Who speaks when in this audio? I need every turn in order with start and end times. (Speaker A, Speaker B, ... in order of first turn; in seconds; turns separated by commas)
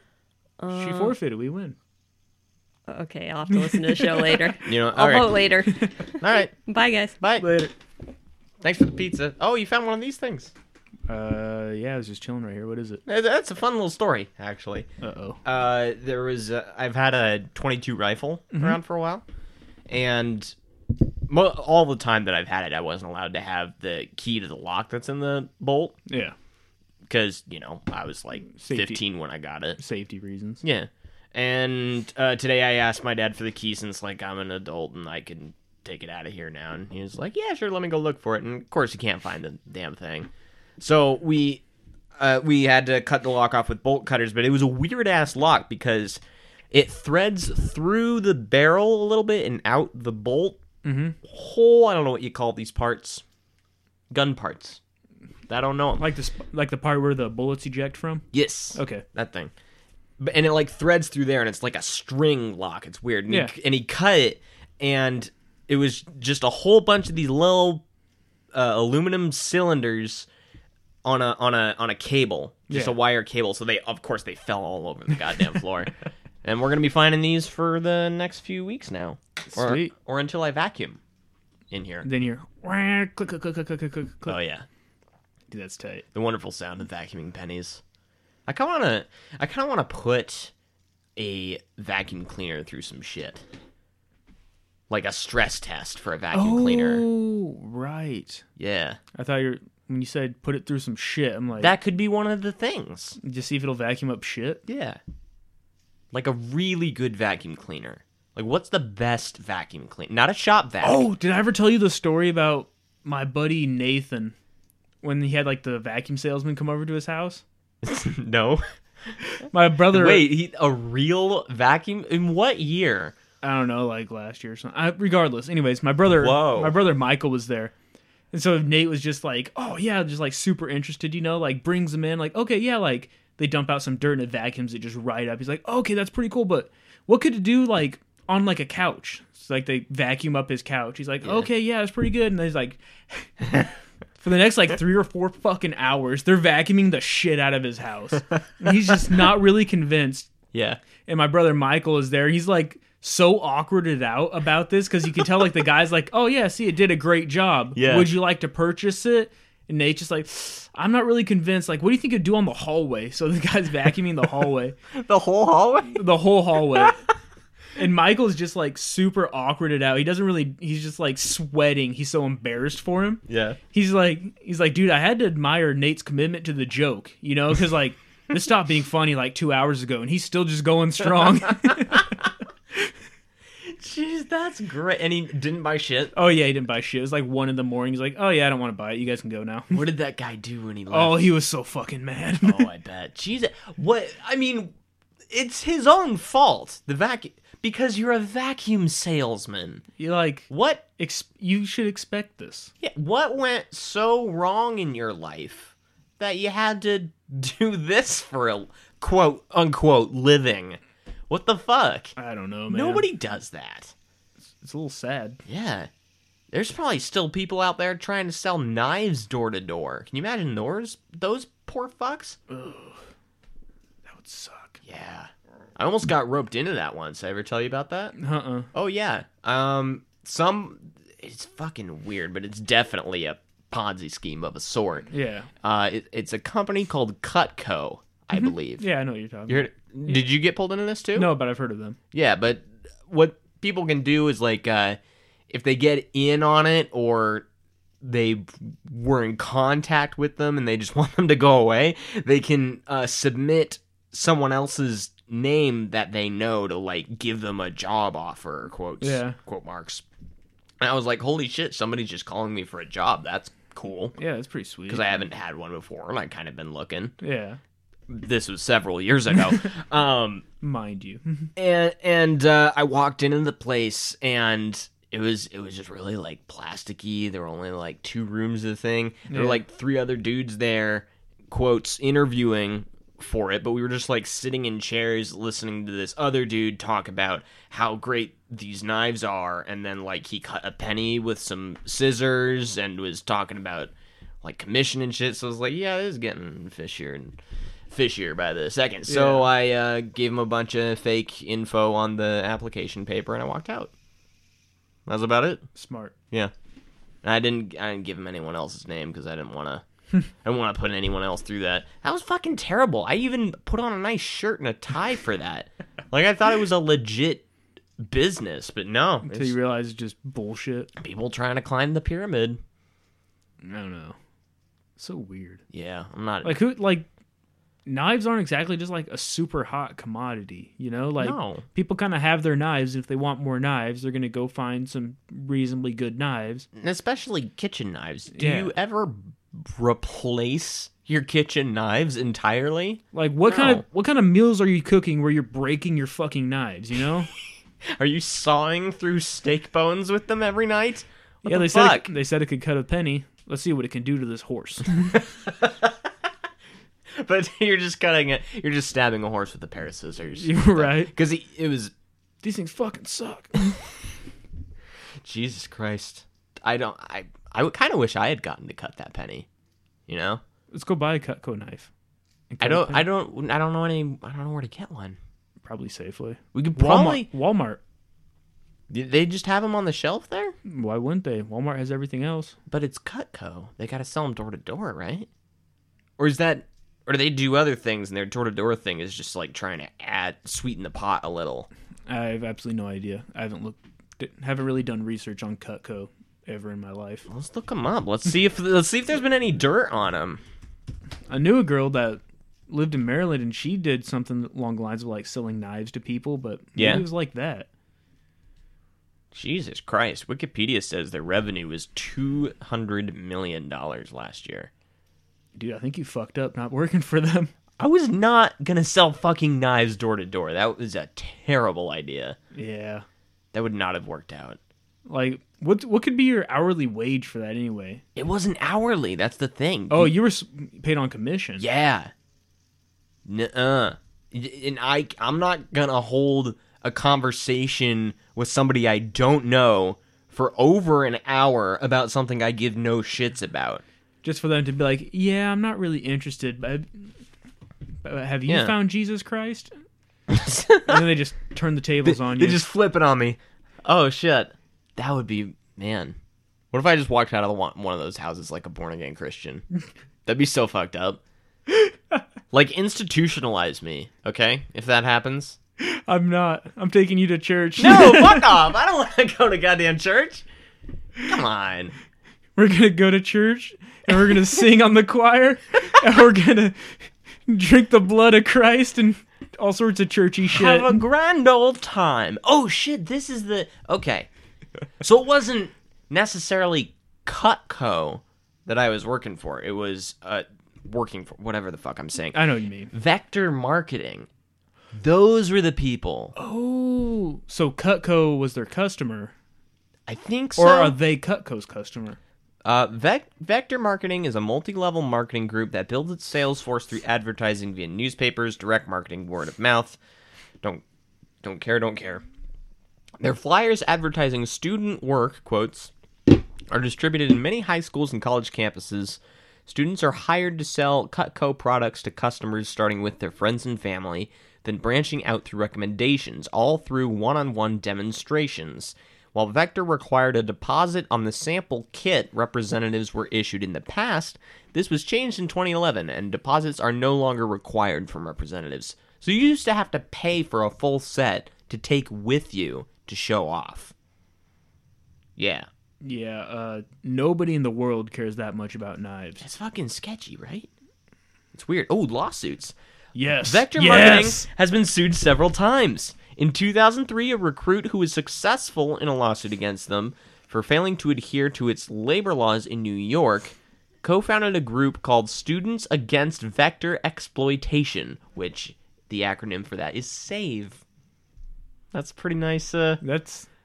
Speaker A: 0.6-1.2, Speaker B: 0.7-1.8, Speaker A: 2.9-7.2, Speaker C: 4.6-5.5, Speaker C: 6.2-6.5, Speaker C: 7.2-7.5, Speaker B: 7.4-7.7, Speaker C: 8.6-10.5, Speaker B: 11.1-13.0, Speaker C: 13.1-14.9, Speaker B: 15.0-15.4, Speaker C: 15.4-19.2, Speaker B: 18.5-18.8, Speaker C: 19.9-20.6, Speaker C: 21.3-26.0, Speaker B: 26.1-26.4, Speaker C: 27.1-29.8, Speaker B: 28.5-29.0, Speaker B: 29.8-30.6, Speaker C: 30.6-41.6, Speaker C: 42.2-46.2, Speaker C: 46.7-50.6, Speaker B: 50.8-51.2, Speaker C: 51.2-53.2, Speaker C: 54.1-54.8, Speaker C: 55.5-56.0, Speaker B: 56.0-59.0, Speaker C: 58.3-59.5, Speaker C: 60.2-67.8, Speaker B: 63.3-63.5, Speaker C: 68.5-70.3, Speaker C: 71.0-75.9, Speaker B: 72.7-73.0, Speaker C: 76.4-81.0, Speaker B: 79.5-79.9, Speaker C: 81.7-82.1, Speaker B: 82.0-84.4, Speaker C: 84.3-84.7, Speaker B: 85.5-86.0, Speaker C: 86.2-87.8, Speaker C: 88.5-90.5, Speaker C: 91.2-93.4, Speaker C: 94.9-97.0, Speaker B: 96.3-98.4, Speaker C: 98.6-99.0, Speaker B: 99.2-101.7, Speaker C: 101.6-103.2, Speaker B: 103.2-104.6, Speaker C: 104.7-105.0, Speaker C: 106.1-111.1, Speaker B: 110.8-114.3, Speaker B: 115.0-117.4, Speaker C: 117.8-118.6, Speaker B: 119.5-120.3, Speaker C: 119.9-123.2, Speaker B: 123.4-127.7, Speaker C: 126.1-126.8, Speaker B: 128.3-143.7, Speaker C: 141.2-141.5, Speaker B: 144.2-150.3, Speaker C: 150.5-150.8, Speaker B: 151.0-164.8, Speaker C: 157.8-158.2, Speaker C: 164.9-166.1, Speaker B: 165.9-167.0, Speaker B: 167.8-182.1, Speaker C: 173.3-173.6, Speaker C: 183.6-186.1, Speaker B: 186.2-189.8, Speaker C: 189.7-191.3, Speaker B: 190.9-192.7, Speaker C: 192.4-194.7, Speaker C: 195.3-199.8, Speaker B: 200.0-202.7, Speaker C: 200.5-200.8, Speaker C: 202.8-212.2, Speaker B: 212.2-213.1, Speaker C: 212.7-213.9, Speaker B: 214.6-215.4, Speaker C: 215.4-215.9, Speaker C: 216.5-222.4, Speaker B: 222.5-223.0, Speaker B: 224.1-224.8, Speaker C: 224.8-228.2, Speaker B: 228.2-228.7, Speaker C: 228.7-235.1, Speaker B: 235.1-235.5, Speaker C: 235.6-238.9, Speaker B: 238.3-240.2, Speaker C: 239.5-241.3, Speaker B: 241.2-242.0, Speaker C: 242.1-245.0, Speaker C: 245.5-247.5, Speaker C: 248.0-260.0, Speaker B: 259.0-259.4, Speaker C: 260.8-264.2, Speaker B: 264.2-265.1, Speaker C: 264.9-267.1, Speaker B: 267.2-267.6, Speaker C: 268.1-270.4, Speaker B: 270.6-271.5, Speaker C: 271.6-297.4, Speaker B: 279.3-279.6, Speaker C: 297.9-303.9, Speaker B: 299.1-299.5, Speaker C: 305.1-305.6, Speaker B: 305.8-306.1, Speaker C: 307.2-309.8, Speaker C: 310.4-317.5, Speaker C: 318.0-319.6, Speaker B: 319.2-320.9, Speaker C: 321.0-322.6, Speaker B: 323.6-324.2, Speaker B: 325.0-325.6, Speaker C: 325.7-326.6, Speaker B: 326.4-327.1, Speaker B: 327.9-336.7, Speaker C: 331.2-331.6, Speaker C: 336.7-343.8, Speaker B: 338.4-338.7, Speaker B: 343.1-347.3, Speaker C: 347.9-352.1, Speaker B: 351.4-355.0, Speaker C: 355.1-356.0, Speaker C: 357.1-361.9, Speaker B: 360.4-361.1, Speaker B: 362.4-363.8, Speaker C: 365.2-369.5, Speaker C: 370.1-370.4, Speaker B: 370.7-371.9, Speaker B: 372.5-373.1, Speaker C: 372.6-375.2, Speaker B: 375.6-377.8, Speaker C: 376.5-377.3, Speaker C: 378.9-380.6, Speaker B: 380.7-382.6, Speaker C: 382.7-385.3, Speaker C: 386.2-391.7, Speaker B: 392.1-397.3, Speaker C: 397.3-400.4, Speaker B: 401.3-407.7, Speaker C: 406.8-407.0, Speaker C: 409.3-414.7, Speaker B: 415.6-417.5, Speaker C: 417.8-422.4, Speaker B: 422.5-423.1, Speaker C: 423.5-424.6, Speaker B: 425.1-428.0, Speaker C: 428.2-430.1, Speaker B: 429.9-431.6, Speaker C: 431.6-432.1, Speaker C: 433.2-443.8, Speaker B: 444.2-447.1, Speaker B: 448.0-449.7, Speaker C: 448.5-448.8, Speaker C: 450.3-451.0, Speaker B: 450.9-452.6, Speaker C: 452.0-456.2, Speaker C: 456.7-459.6, Speaker C: 460.3-461.2, Speaker B: 461.7-462.2, Speaker C: 462.5-465.6, Speaker B: 465.8-468.5, Speaker C: 467.8-470.5, Speaker C: 471.2-471.9, Speaker B: 472.6-481.0, Speaker C: 480.5-484.3, Speaker C: 485.0-494.3, Speaker B: 492.3-492.9, Speaker C: 494.9-496.3, Speaker B: 496.4-499.3, Speaker C: 500.1-501.0, Speaker B: 500.6-502.2, Speaker C: 502.6-510.0, Speaker C: 511.4-512.2, Speaker C: 513.2-515.9, Speaker C: 516.7-543.9, Speaker C: 545.4-545.7, Speaker B: 546.0-549.5, Speaker C: 549.4-550.7, Speaker C: 551.5-552.8, Speaker B: 553.1-554.5, Speaker C: 553.4-570.8, Speaker C: 571.9-573.0, Speaker B: 573.0-573.5